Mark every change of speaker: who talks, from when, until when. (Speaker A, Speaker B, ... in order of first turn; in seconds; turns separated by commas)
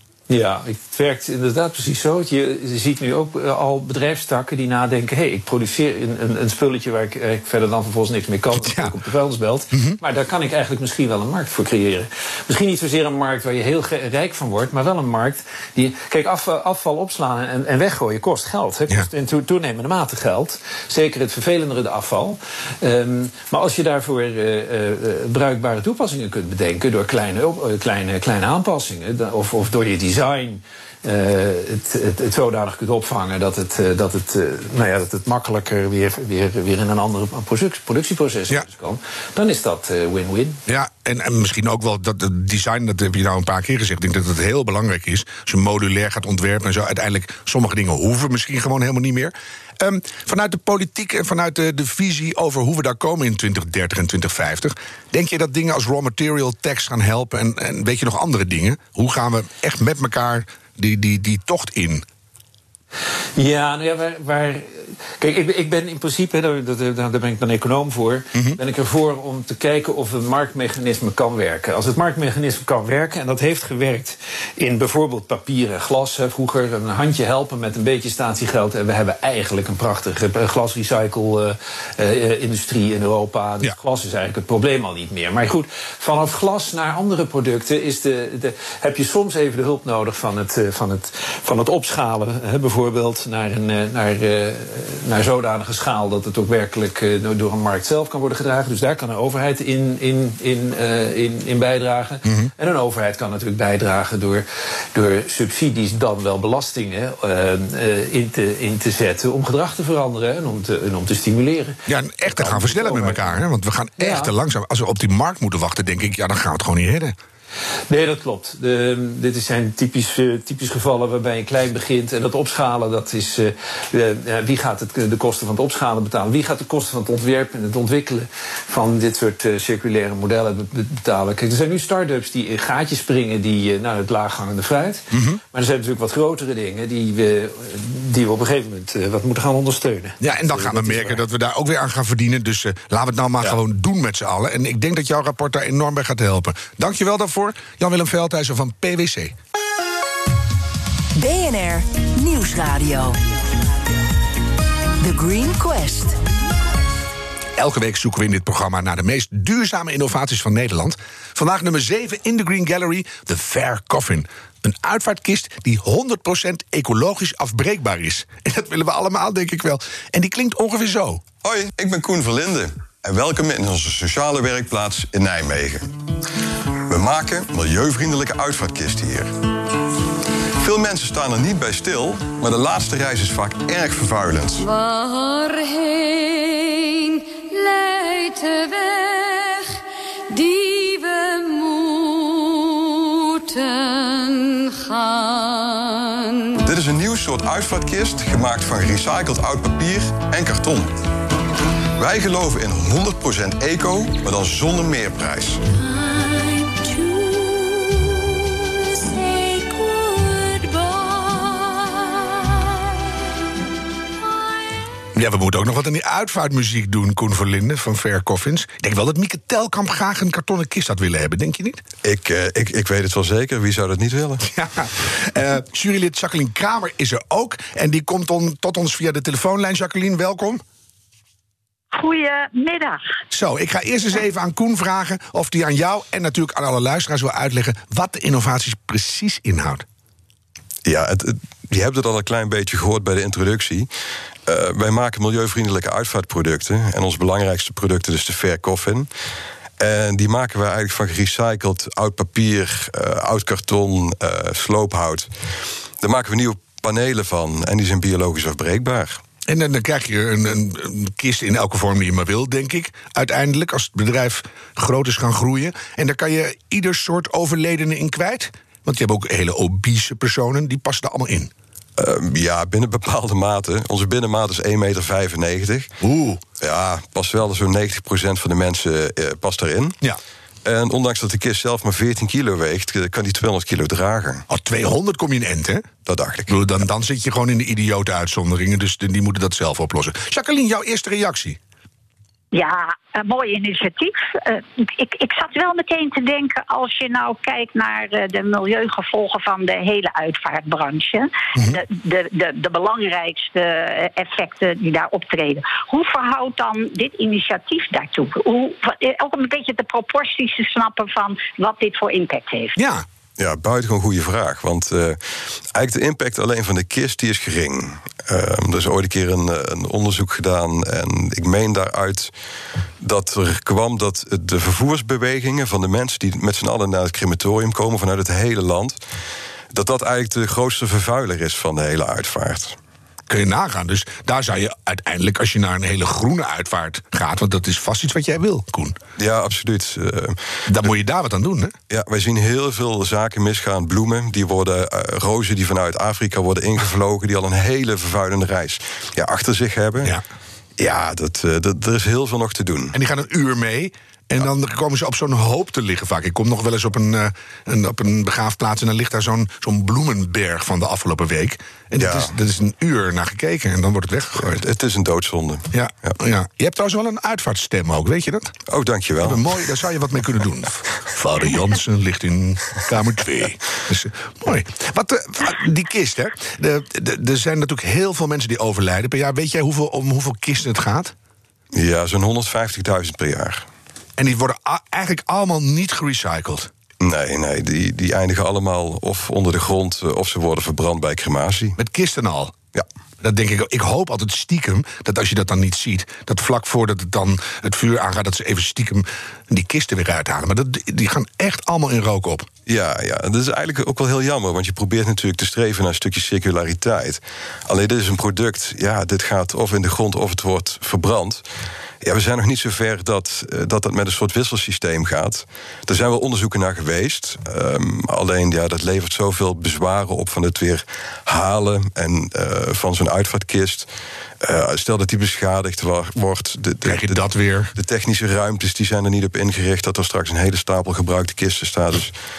Speaker A: 0.3-40.6, Speaker B: 8.5-8.9, Speaker B: 40.7-62.0, Speaker A: 63.4-113.4, Speaker B: 68.3-68.6, Speaker B: 102.2-102.5, Speaker B: 111.9-117.2, Speaker A: 114.0-114.3, Speaker A: 117.9-141.2, Speaker B: 135.1-135.4, Speaker B: 140.2-149.3, Speaker C: 151.1-153.2, Speaker C: 155.0-156.2, Speaker B: 157.6-171.2, Speaker D: 171.4-175.9, Speaker D: 176.9-179.3, Speaker D: 180.6-184.7, Speaker E: 184.6-196.6, Speaker D: 196.6-201.0, Speaker D: 202.0-205.6, Speaker C: 205.7-213.2, Speaker B: 215.1-221.8, Speaker D: 222.0-224.4, Speaker B: 224.4-230.6, Speaker F: 231.9-233.0, Speaker B: 233.3-239.8, Speaker D: 240.8-243.9, Speaker D: 244.4-249.1, Speaker D: 249.8-255.3, Speaker D: 256.0-259.2, Speaker B: 259.5-271.5, Speaker D: 272.0-275.9, Speaker B: 276.0-276.4, Speaker D: 276.6-280.0, Speaker D: 280.6-284.4, Speaker B: 284.5-285.9, Speaker D: 286.1-286.7, Speaker B: 286.5-291.6, Speaker F: 292.5-312.8, Speaker B: 312.8-313.0, Speaker D: 313.4-322.3, Speaker D: 323.0-329.0, Speaker D: 329.7-332.8, Speaker B: 333.3-339.0, Speaker D: 339.2-340.5, Speaker B: 340.7-341.7, Speaker D: 341.9-350.1, Speaker D: 350.8-352.9, Speaker B: 352.9-364.6, Speaker D: 362.0-362.3, Speaker D: 364.4-366.1, Speaker B: 365.7-368.5, Speaker D: 368.7-369.6, Speaker B: 369.2-381.1, Speaker D: 381.7-383.6, Speaker B: 384.2-386.7, Speaker D: 387.0-391.8, Speaker B: 391.8-392.5, Speaker B: 393.2-402.5, Speaker D: 402.6-411.4, Speaker D: 412.0-423.9, Speaker D: 424.4-427.2, Speaker B: 426.8-427.7, Speaker D: 427.7-432.1